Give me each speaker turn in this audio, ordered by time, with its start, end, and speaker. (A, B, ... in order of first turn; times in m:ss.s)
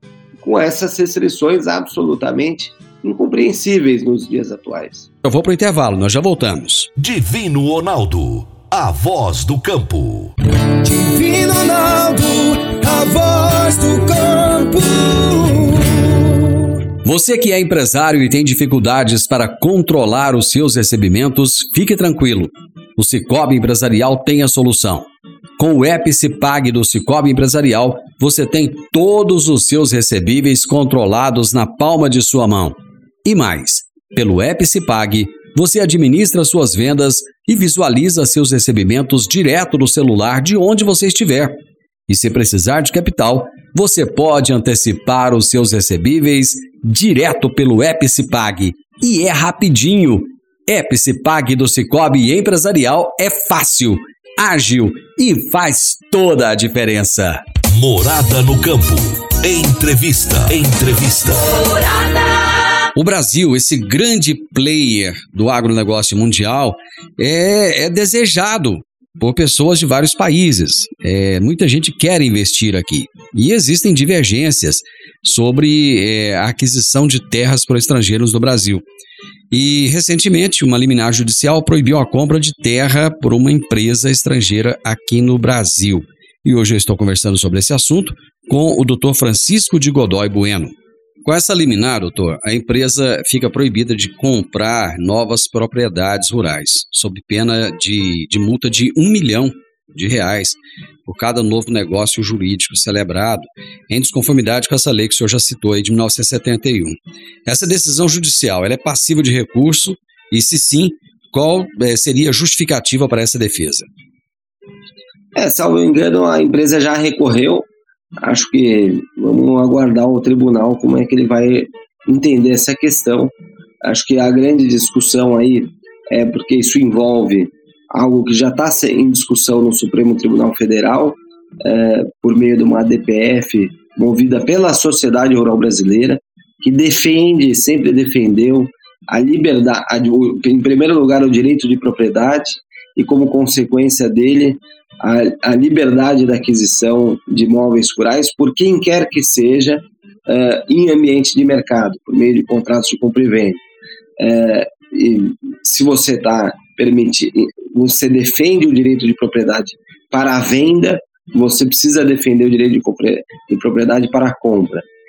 0:00.4-0:05.1 A
0:05.2-0:06.9 B
0:07.0-0:10.3 C
0:10.8-0:16.2 D
0:17.0-0:25.1 B
0:25.6-0:41.6 B
0:42.1-0:57.4 B
0:57.7-1:01.6 C
1:02.9-1:18.8 B
1:19.5-1:30.7 B
1:31.2-1:53.9 B
1:55.3-1:57.7 A
1:58.2-2:33.6 A
2:34.2-2:44.8 A